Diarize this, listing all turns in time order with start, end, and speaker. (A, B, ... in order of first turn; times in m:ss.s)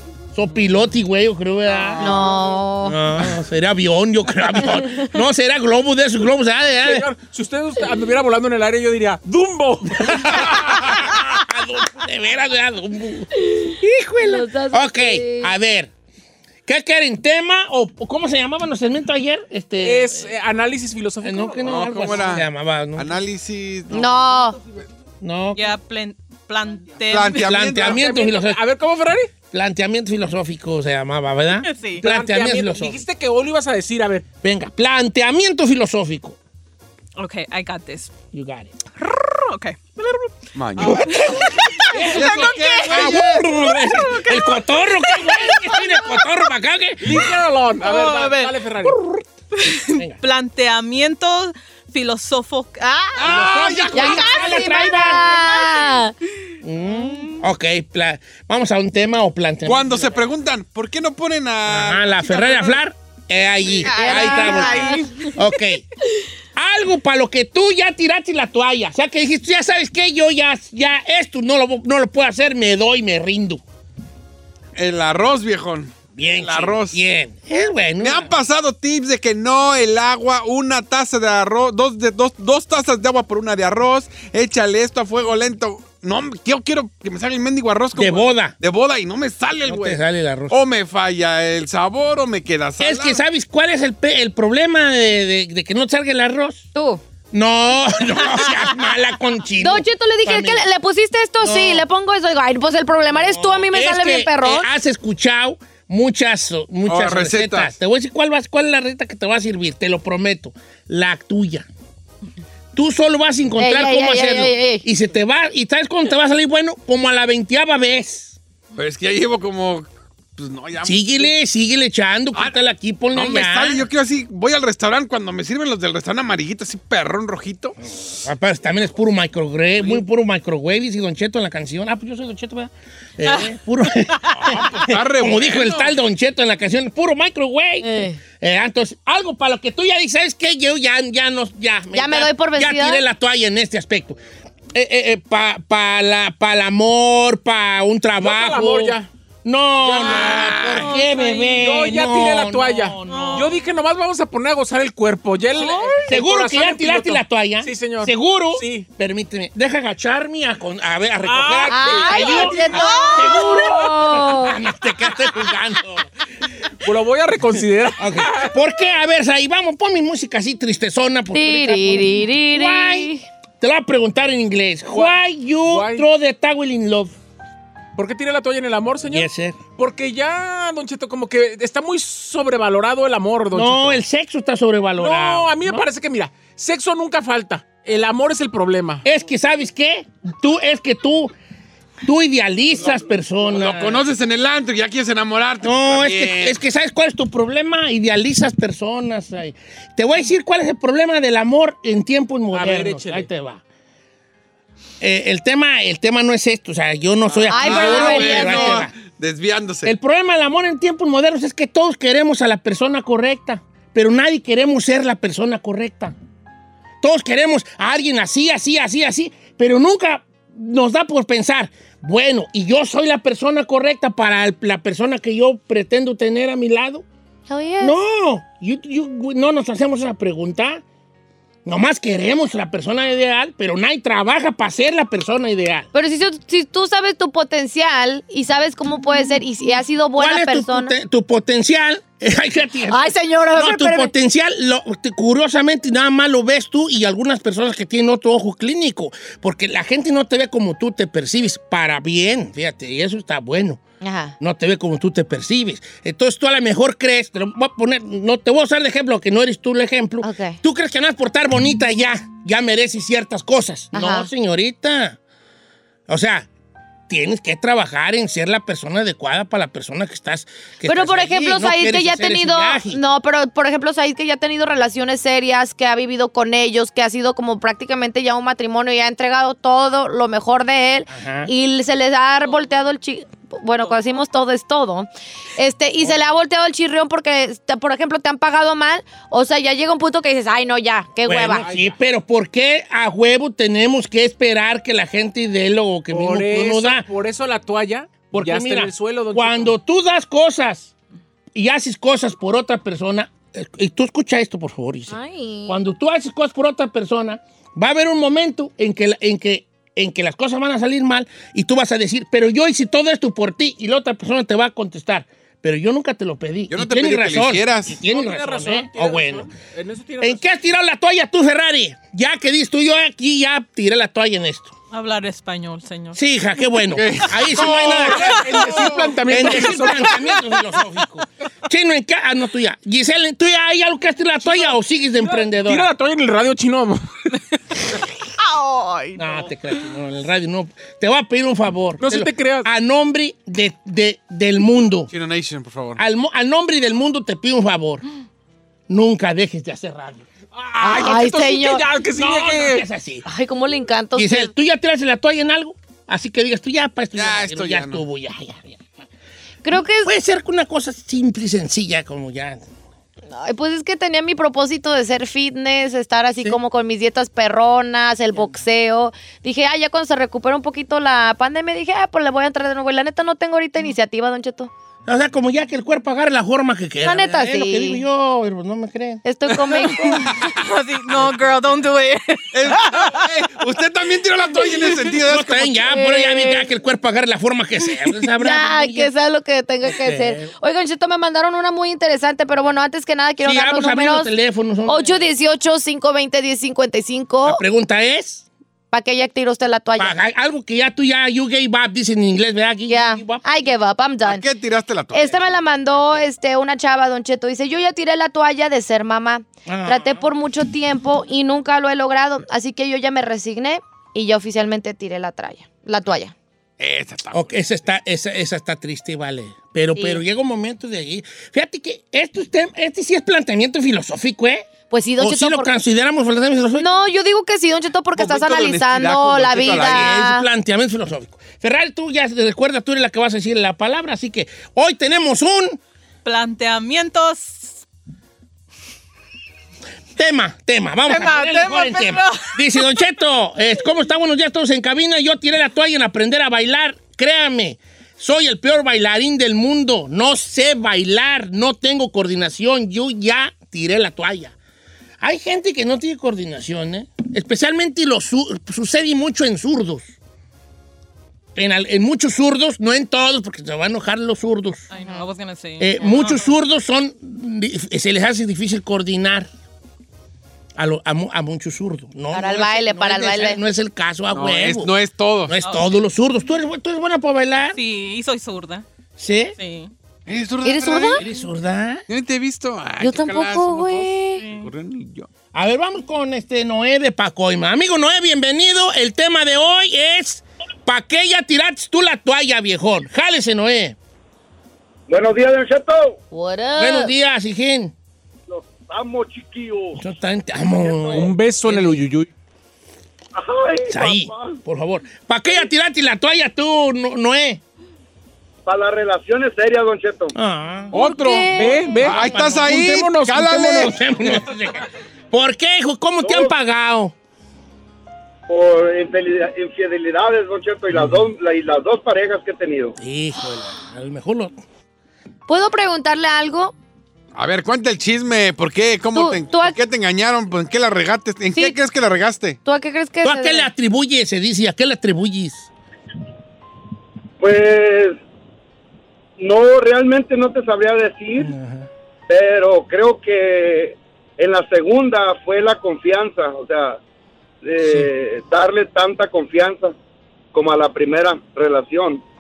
0:00.3-0:02.1 A
0:01.7-0:02.2 B
0:02.0-0:03.0 C
0:02.8-0:07.1 A
0:06.8-0:10.5 B
0:10.0-0:15.9 A
0:14.2-0:15.5 C
0:16.6-0:20.3 A
0:19.8-0:22.1 B
0:21.2-0:23.2 A
0:21.6-0:24.1 D
0:23.9-0:24.6 C
0:25.2-0:25.7 A
0:25.5-0:27.5 E
0:27.0-0:28.0 D
0:27.2-0:28.6 A
0:27.8-0:29.3 B
0:29.5-0:33.0 A
0:31.6-0:32.0 E
0:32.0-0:34.2 B
0:34.4-0:36.4 A
0:37.2-0:38.1 E
0:38.3-0:38.7 A
0:39.0-0:40.3 E
0:40.5-0:41.0 D
0:40.8-0:41.3 A
0:40.8-0:43.0 E
0:41.9-0:47.4 A
0:42.0-0:43.4 D
0:43.8-0:46.2 E
0:47.0-0:49.0 B
0:47.8-0:48.5 E
0:49.5-0:55.8 E
0:53.2-0:54.2 B
0:53.2-0:55.4 A
0:53.9-0:56.1 C
0:56.6-1:00.2 A
0:56.9-0:57.4 E
0:59.6-1:02.8 D
1:01.6-1:05.8 A
1:03.8-1:05.4 E
1:03.9-1:05.1 C
1:06.6-1:13.6 A
1:14.8-1:17.0 D
1:16.2-1:18.3 A
1:18.0-1:33.2 D
1:28.0-1:28.5 A
1:29.6-1:30.5 A
1:32.8-1:36.7 A
1:36.7-1:37.0 C
1:37.3-1:40.6 A
1:39.6-1:44.7 C
1:41.4-1:41.8 A
1:43.2-1:51.7 A
1:46.9-1:47.7 D
1:52.7-1:58.4 A
1:53.6-1:54.8 C
1:58.7-2:01.3 D
2:00.8-2:03.8 A
2:03.1-2:07.7 D
2:07.8-2:24.2 A
2:13.2-2:13.5 E
2:14.4-2:15.9 D
2:17.8-2:18.2 C
2:21.9-2:23.0 C
2:24.7-2:33.6 A
2:28.2-2:29.1 B
2:29.8-2:30.6 B
2:30.0-2:31.0 D
2:30.7-2:31.6 E
2:31.4-2:38.8 B
2:33.1-2:33.6 E
2:35.5-2:36.1 E
2:36.0-2:46.1 A
2:41.2-2:42.7 B
2:41.7-2:44.6 C
2:42.2-2:43.4 E
2:46.8-2:48.5 B
2:48.0-2:57.1 A
2:51.3-2:53.2 C
2:54.9-2:55.2 B
2:55.7-2:56.0 B
2:58.0-3:04.0 B
2:59.1-2:59.6 A
3:03.5-3:05.9 A
3:05.0-3:09.0 B
3:09.0-3:11.3 A
3:12.0-3:14.0 A
3:13.5-3:16.6 D
3:15.6-3:23.6 A
3:22.5-3:23.3 B
3:25.0-3:28.9 A
3:27.3-3:29.9 D
3:27.5-3:28.8 C
3:29.8-3:36.1 A
3:37.0-3:47.0 A
3:47.5-3:48.0 C
3:47.8-3:50.8 A
3:51.6-3:55.9 A
3:55.9-4:00.9 C
4:00.2-4:13.8 A
4:02.9-4:04.1 C
4:14.0-4:14.4 C
4:14.4-4:25.2 A
4:20.2-4:20.6 C
4:23.9-4:24.3 C
4:26.1-4:26.5 A
4:27.1-4:33.0 A
4:30.8-4:51.6 C
4:41.1-4:41.5 A
4:51.2-4:57.1 A
4:51.6-4:52.0 B
4:56.1-4:59.7 B
4:58.3-5:00.9 A
5:01.5-5:19.5 A
5:05.1-5:05.8 C
5:16.7-5:18.0 D
5:18.1-5:20.4 B
5:20.2-5:24.7 A
5:24.9-5:26.2 E
5:26.1-5:35.9 A
5:26.9-5:29.8 D
5:27.5-5:30.2 B
5:34.4-5:37.0 B
5:38.4-5:39.8 E
5:39.1-5:45.1 A
5:42.0-5:42.7 B
5:45.1-5:46.0 D
5:46.0-5:48.0 A
5:48.9-5:51.3 A
5:50.6-5:52.8 B
5:50.9-5:51.8 C
5:52.1-5:53.2 A
5:53.2-5:54.5 C
5:54.2-5:58.9 A
5:57.1-5:58.0 D
5:59.6-6:00.1 C
6:00.0-6:02.6 A
6:03.3-6:14.7 C
6:15.0-6:19.2 A
6:17.0-6:18.0 C
6:19.2-6:20.4 C
6:19.7-6:23.2 E
6:21.2-6:21.5 A
6:22.5-6:25.8 D
6:25.2-6:29.1 A
6:25.9-6:26.7 C
6:28.4-6:34.3 C
6:29.8-6:30.5 A
6:33.4-6:35.3 A
6:34.8-6:37.6 C
6:37.4-6:38.4 A
6:38.9-6:40.2 C
6:40.0-6:43.4 A
6:42.9-6:44.4 C
6:44.2-6:45.6 D
6:45.1-6:56.3 C
6:49.6-6:50.2 A
6:56.8-6:57.5 D
6:57.3-7:06.9 A
7:00.0-7:00.2 C
7:04.9-7:05.7 C
7:06.8-7:10.5 C
7:08.2-7:10.2 D
7:09.6-7:15.8 A
7:16.2-7:17.8 E
7:20.2-7:34.5 A
7:21.1-7:22.8 E
7:35.2-7:40.1 A
7:41.5-7:44.8 A
7:44.9-7:46.5 E
7:44.9-7:45.2 C
7:45.8-7:49.5 A
7:50.8-7:54.9 A
7:52.3-7:53.6 C
7:54.3-7:55.6 D
7:55.5-7:57.8 A
7:55.6-7:56.0 E
7:57.7-7:58.8 E
7:59.2-7:59.6 A
7:59.6-7:59.9 E
8:00.3-8:01.2 D
8:00.6-8:01.2 C
8:01.2-8:02.0 A
8:02.1-8:05.3 D
8:03.0-8:04.4 C
8:04.4-8:04.7 E
8:05.5-8:14.0 A
8:15.1-8:16.2 F
8:16.3-8:17.1 C
8:16.8-8:17.9 A
8:18.5-8:20.0 F
8:19.9-8:22.0 A
8:20.7-8:21.3 F
8:21.1-8:22.3 B
8:23.3-8:24.6 F
8:23.9-8:27.6 A
8:28.6-8:30.3 F
8:30.3-8:30.9 A
8:30.9-8:32.6 C
8:30.9-8:33.9 B
8:32.0-8:33.9 D
8:33.6-8:37.1 A
8:36.2-8:36.5 F
8:38.5-8:42.9 F
8:40.9-8:41.3 A
8:43.0-8:44.5 A
8:45.5-8:46.7 C
8:47.3-8:52.6 D
8:49.1-8:49.8 C
8:52.6-8:53.7 C
8:53.2-8:55.7 A
8:57.4-8:58.2 F
8:59.4-9:01.5 F
9:01.4-9:01.9 A
9:02.3-9:07.0 F
9:07.6-9:10.0 F
9:10.5-9:12.2 F